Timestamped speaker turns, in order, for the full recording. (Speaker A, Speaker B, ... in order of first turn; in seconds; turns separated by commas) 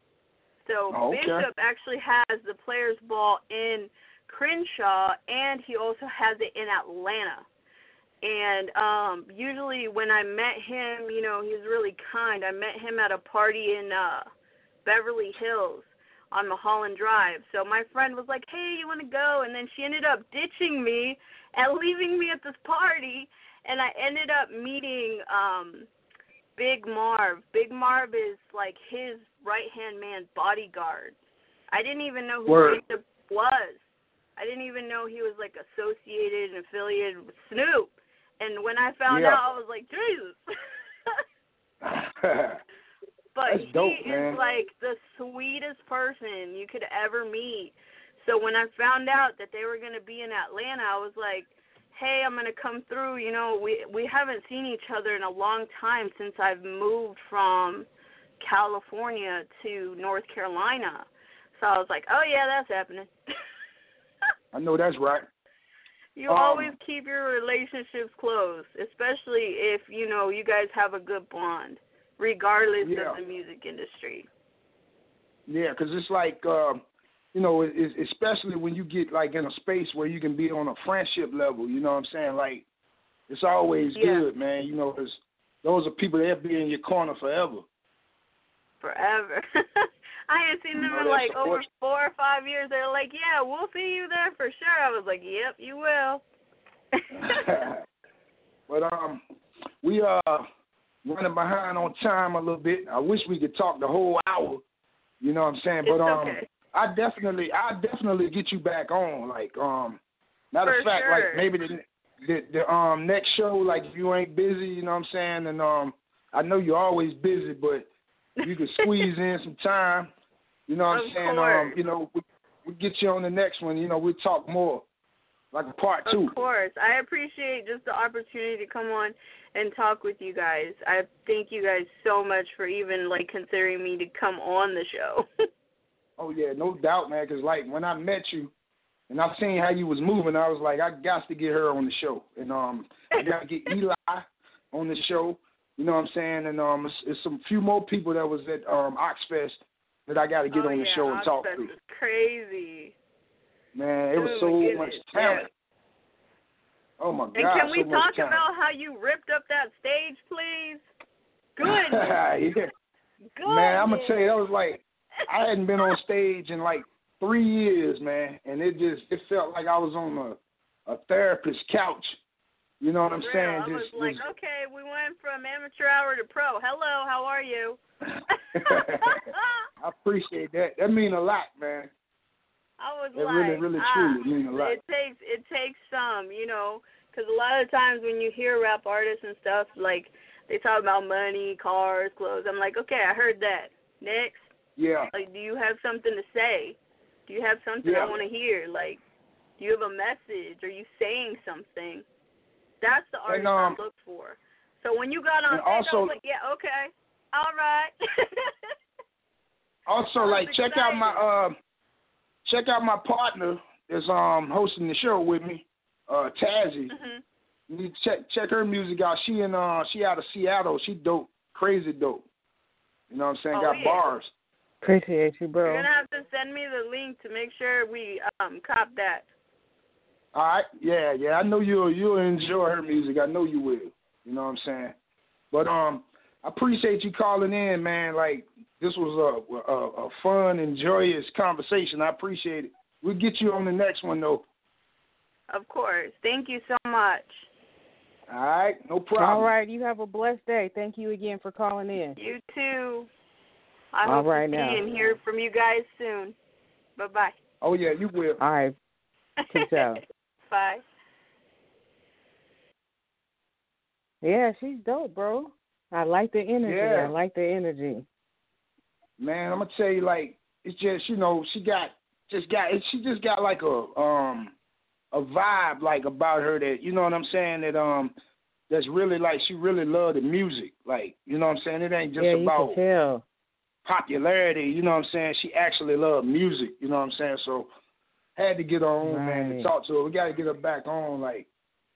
Speaker A: 0.7-7.5, Speaker B: 0.9-1.5, Speaker A: 8.2-14.3, Speaker A: 14.8-25.9, Speaker A: 26.6-31.1, Speaker A: 31.7-33.8, Speaker B: 32.5-32.8, Speaker A: 34.4-40.4, Speaker B: 39.1-39.4, Speaker B: 41.8-42.6, Speaker A: 43.4-57.9, Speaker B: 43.5-44.4, Speaker A: 58.4-63.1, Speaker B: 64.5-65.3, Speaker A: 66.2-74.3, Speaker B: 66.3-66.8, Speaker B: 72.8-73.2, Speaker B: 75.5-76.8, Speaker B: 77.3-82.7, Speaker B: 83.3-87.6, Speaker A: 84.0-84.3, Speaker A: 88.8-96.2, Speaker B: 90.8-91.6, Speaker A: 97.0-97.6, Speaker B: 97.2-97.8, Speaker B: 98.7-99.2, Speaker B: 99.8-100.5, Speaker B: 101.0-104.6, Speaker B: 105.2-110.0, Speaker A: 105.8-106.5, Speaker B: 110.5-117.9, Speaker A: 110.6-111.5, Speaker A: 118.4-119.1, Speaker B: 118.4-120.1, Speaker B: 120.7-124.8, Speaker A: 120.9-121.8, Speaker B: 125.5-126.3, Speaker A: 126.1-135.3, Speaker B: 136.2-138.5, Speaker B: 139.1-151.7, Speaker A: 150.5-152.9, Speaker B: 153.8-155.5, Speaker A: 154.2-155.5, Speaker B: 157.0-158.4, Speaker A: 157.3-160.8, Speaker A: 161.6-162.2, Speaker B: 161.6-162.7, Speaker A: 163.4-164.4, Speaker B: 163.5-172.2, Speaker B: 172.8-174.2, Speaker A: 173.2-177.8, Speaker A: 178.3-179.7, Speaker B: 178.6-179.2, Speaker B: 179.8-181.9, Speaker A: 182.8-194.5, Speaker B: 183.2-184.8, Speaker B: 194.8-195.1, Speaker A: 195.1-199.0, Speaker B: 197.8-198.1, Speaker A: 199.6-202.0, Speaker A: 202.8-208.5, Speaker B: 203.3-203.8, Speaker B: 205.5-206.1, Speaker B: 209.9-211.6, Speaker A: 210.2-211.2, Speaker B: 212.4-216.9, Speaker A: 216.9-217.2, Speaker B: 217.7-222.2, Speaker B: 223.1-224.3, Speaker A: 223.5-224.1, Speaker C: 224.8-225.9, Speaker A: 225.7-229.3, Speaker B: 230.3-234.9, Speaker B: 235.5-244.4, Speaker A: 245.5-247.5, Speaker B: 248.3-249.5, Speaker C: 249.2-252.2, Speaker A: 252.2-253.1, Speaker A: 253.9-256.4, Speaker C: 254.1-255.2, Speaker A: 257.0-257.4, Speaker B: 257.6-258.4, Speaker C: 258.4-258.8, Speaker A: 259.4-259.9, Speaker C: 259.5-260.0, Speaker A: 260.5-260.8, Speaker C: 264.2-268.1, Speaker B: 266.6-267.1, Speaker B: 269.2-274.6, Speaker B: 275.1-278.1, Speaker B: 278.7-282.8, Speaker C: 282.2-283.2, Speaker B: 283.9-287.7, Speaker B: 288.4-291.5, Speaker C: 289.1-289.7